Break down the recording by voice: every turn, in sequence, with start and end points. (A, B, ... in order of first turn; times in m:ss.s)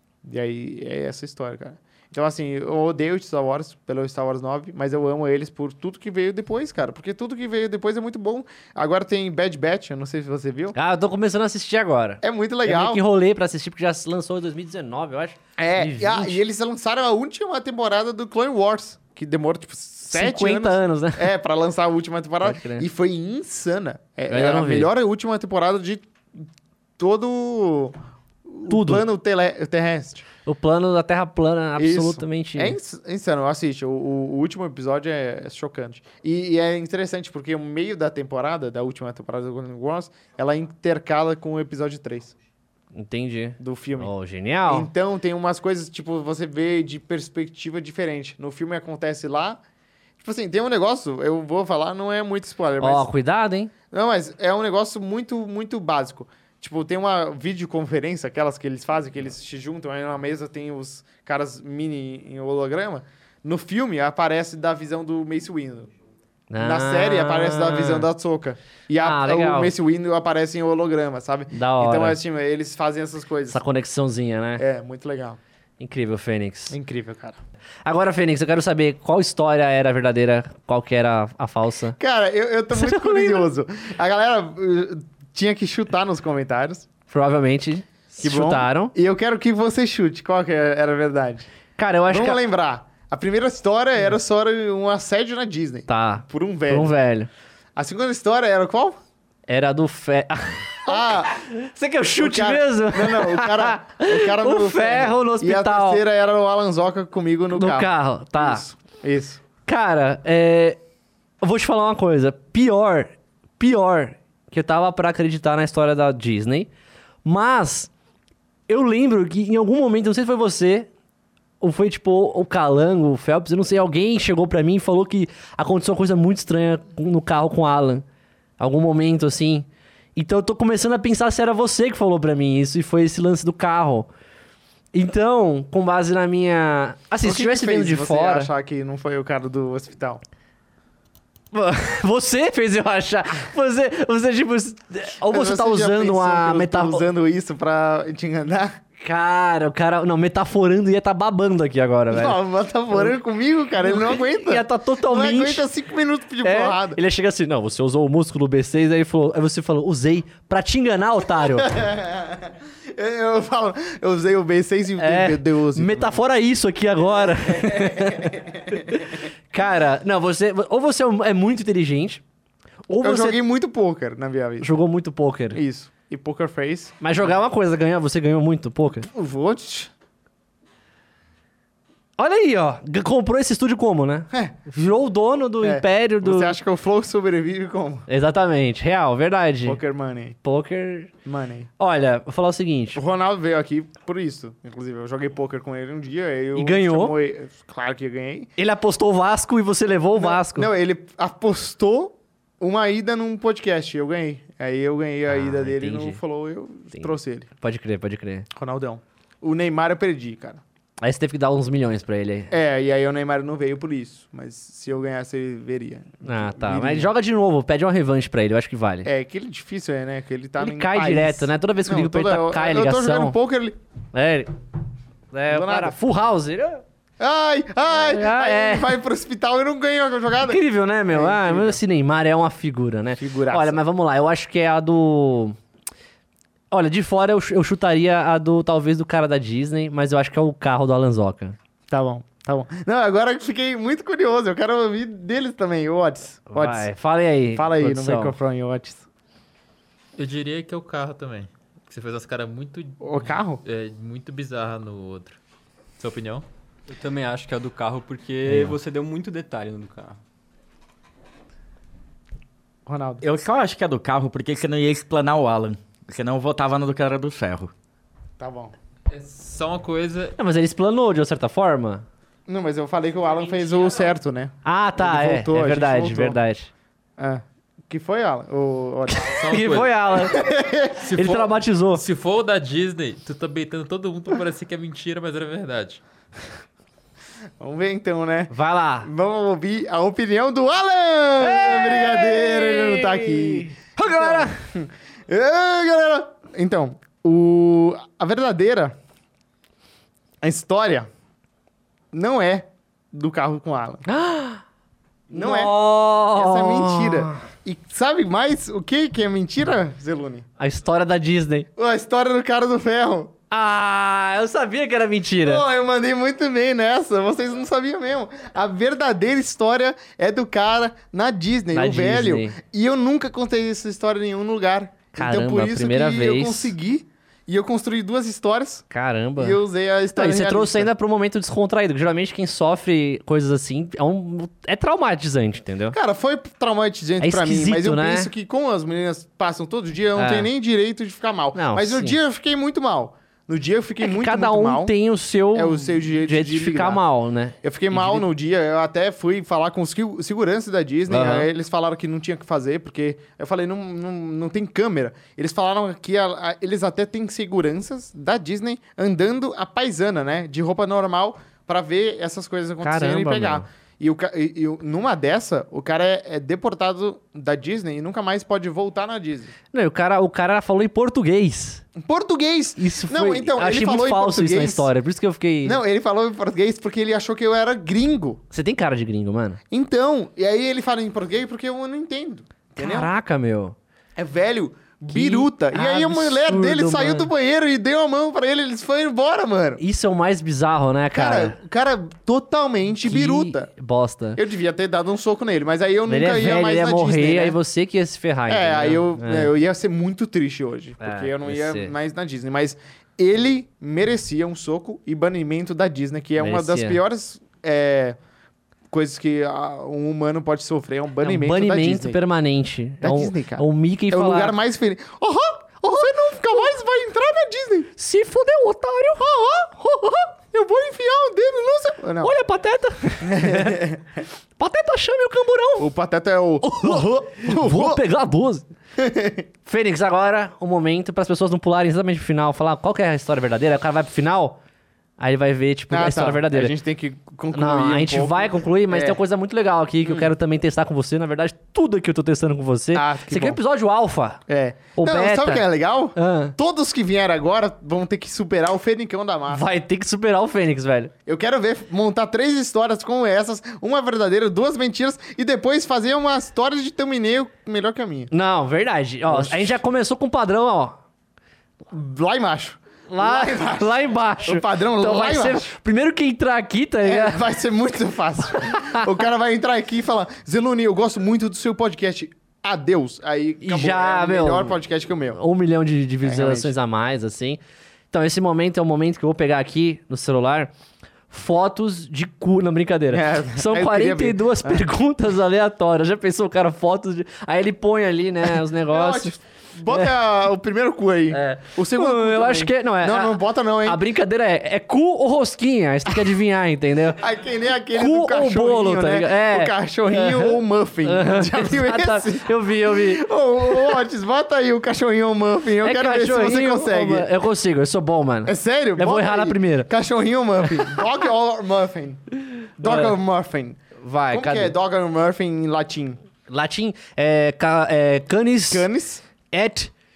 0:00.2-0:10.7 A
0:10.7-0:16.4 B
0:12.2-0:13.0 A
0:15.6-0:26.4 A
0:20.1-0:21.3 B
0:22.4-0:22.8 B
0:24.3-0:24.9 B
0:27.0-0:27.9 A
0:28.4-0:30.3 A
0:28.7-0:29.0 B
0:30.4-0:32.8 B
0:31.8-0:42.3 A
0:42.9-0:44.9 B
0:43.6-0:44.1 A
0:44.7-0:49.6 A
0:50.2-0:53.1 A
0:52.8-0:53.7 B
0:53.9-1:05.9 A
1:06.5-1:08.1 B
1:06.6-1:13.6 A
1:09.0-1:09.7 B
1:11.5-1:12.2 B
1:13.5-1:14.6 B
1:14.6-1:15.4 A
1:15.8-1:16.8 B
1:16.7-1:17.4 A
1:17.8-1:22.0 B
1:22.0-1:26.9 A
1:22.7-1:23.4 B
1:27.1-1:28.9 B
1:28.2-1:31.5 A
1:31.8-1:32.4 B
1:32.1-1:36.9 A
1:35.9-1:37.3 B
1:37.8-1:39.0 A
1:39.5-1:46.0 B
1:40.9-1:41.4 A
1:42.2-1:49.4 A
1:47.5-1:48.6 B
1:49.6-1:50.8 B
1:51.4-1:56.7 B
1:57.2-1:57.9 B
1:58.7-2:00.9 B
2:01.6-2:08.0 B
2:08.6-2:14.1 B
2:14.9-2:18.5 B
2:17.2-2:20.2 A
2:21.5-2:27.0 B
2:25.3-2:28.7 A
2:29.0-2:32.4 B
2:32.1-2:37.0 A
2:33.8-2:35.6 B
2:36.4-2:41.7 B
2:41.6-2:46.2 A
2:45.0-2:52.2 B
2:47.4-2:49.0 A
2:52.9-2:53.4 B
2:53.0-2:54.7 A
2:54.6-2:55.6 B
2:55.5-2:57.0 A
2:57.0-2:59.1 B
2:59.1-2:59.9 A
3:02.2-3:06.6 B
3:04.3-3:04.6 A
3:05.6-3:08.0 A
3:08.1-3:09.8 B
3:09.6-3:10.4 A
3:10.4-3:11.1 B
3:11.2-3:11.7 A
3:11.8-3:13.0 B
3:12.9-3:18.5 A
3:16.6-3:17.1 B
3:18.6-3:20.7 B
3:20.1-3:27.5 A
3:25.3-3:26.2 B
3:26.9-3:28.5 B
3:28.6-3:30.6 A
3:31.0-3:32.5 B
3:32.5-3:37.1 A
3:36.2-3:39.1 B
3:39.0-3:43.8 A
3:40.6-3:43.4 B
3:44.1-3:44.5 B
3:45.3-3:46.8 B
3:45.5-3:46.0 A
3:47.2-3:51.8 A
3:47.9-3:48.9 B
3:50.4-3:55.6 B
3:53.1-3:53.8 A
3:56.7-4:01.6 B
4:01.9-4:06.9 A
4:06.5-4:08.4 B
4:07.5-4:09.0 A
4:10.2-4:15.4 C
4:13.0-4:13.6 A
4:16.0-4:16.4 C
4:16.9-4:20.2 D
4:18.5-4:18.8 B
4:22.8-4:23.2 A
4:23.2-4:27.7 E
4:28.4-4:28.7 A
4:29.1-4:30.3 C
4:30.4-4:32.0 B
4:32.5-4:36.4 A
4:34.6-4:36.7 B
4:37.2-4:39.6 A
4:39.2-4:40.4 B
4:39.3-4:40.4 C
4:40.2-4:41.1 A
4:41.0-4:46.0 C
4:41.2-4:42.0 B
4:47.6-4:59.0 A
4:48.5-4:49.1 B
4:51.4-4:54.6 B
5:00.4-5:01.1 A
5:02.1-5:04.0 A
5:04.0-5:04.6 B
5:05.3-5:05.8 A
5:05.3-5:07.4 B
5:06.3-5:10.5 A
5:10.6-5:11.7 B
5:11.8-5:13.3 A
5:13.5-5:15.6 B
5:15.4-5:28.8 A
5:21.7-5:22.6 B
5:25.1-5:26.7 B
5:28.9-5:29.6 B
5:29.4-5:30.9 A
5:30.1-5:36.0 B
5:35.9-5:44.9 A
5:37.2-5:38.3 B
5:40.2-5:40.5 B
5:41.6-5:42.2 B
5:44.0-5:48.2 B
5:45.5-5:47.0 A
5:47.6-6:09.5 A
5:51.1-5:51.5 B
6:02.8-6:03.6 B
6:09.7-6:11.8 B
6:12.0-6:14.9 A
6:12.8-6:15.8 B
6:15.6-6:18.4 A
6:18.5-6:19.6 B
6:19.7-6:23.1 A
6:22.8-6:23.7 B
6:24.2-6:29.8 A
6:25.1-6:27.3 B
6:29.8-6:31.6 B
6:31.1-6:33.7 A
6:33.0-6:34.4 B
6:34.4-6:37.6 A
6:36.1-6:39.5 B
6:38.5-6:48.2 A
6:41.0-6:41.9 B
6:46.4-6:47.0 B
6:48.9-6:52.2 A
6:51.2-6:54.6 B
6:53.0-6:57.9 A
6:58.0-7:00.3 B
7:00.5-7:02.3 A
7:02.2-7:03.8 B
7:03.2-7:04.0 A
7:04.6-7:05.9 B
7:05.8-7:08.0 A
7:06.6-7:08.6 B
7:09.0-7:09.4 A
7:09.6-7:14.6 B
7:15.2-7:16.7 B
7:15.9-7:19.2 A
7:17.5-7:24.4 B
7:20.0-7:20.3 A
7:22.9-7:23.6 A
7:24.5-7:29.6 A
7:25.0-7:26.6 B
7:29.5-7:31.1 B
7:31.3-7:38.3 A
7:38.3-7:41.0 B
7:39.3-7:39.8 A
7:41.9-7:45.7 A
7:43.1-7:47.4 B
7:47.0-7:55.4 A
7:48.7-7:49.1 B
7:53.6-7:54.8 B
7:55.4-7:57.6 B
7:56.2-7:56.7 A
7:58.1-8:00.7 B
8:01.3-8:09.3 B
8:03.1-8:04.8 A
8:08.7-8:14.0 A
8:11.3-8:17.2 B
8:17.1-8:27.3 A
8:17.9-8:23.2 B
8:25.8-8:29.9 B
8:28.4-8:32.2 A
8:32.8-8:33.8 A
8:32.8-8:33.2 B
8:34.0-8:34.7 B
8:34.3-8:36.2 A
8:36.5-8:38.9 B
8:38.7-8:39.2 A
8:39.5-8:39.9 B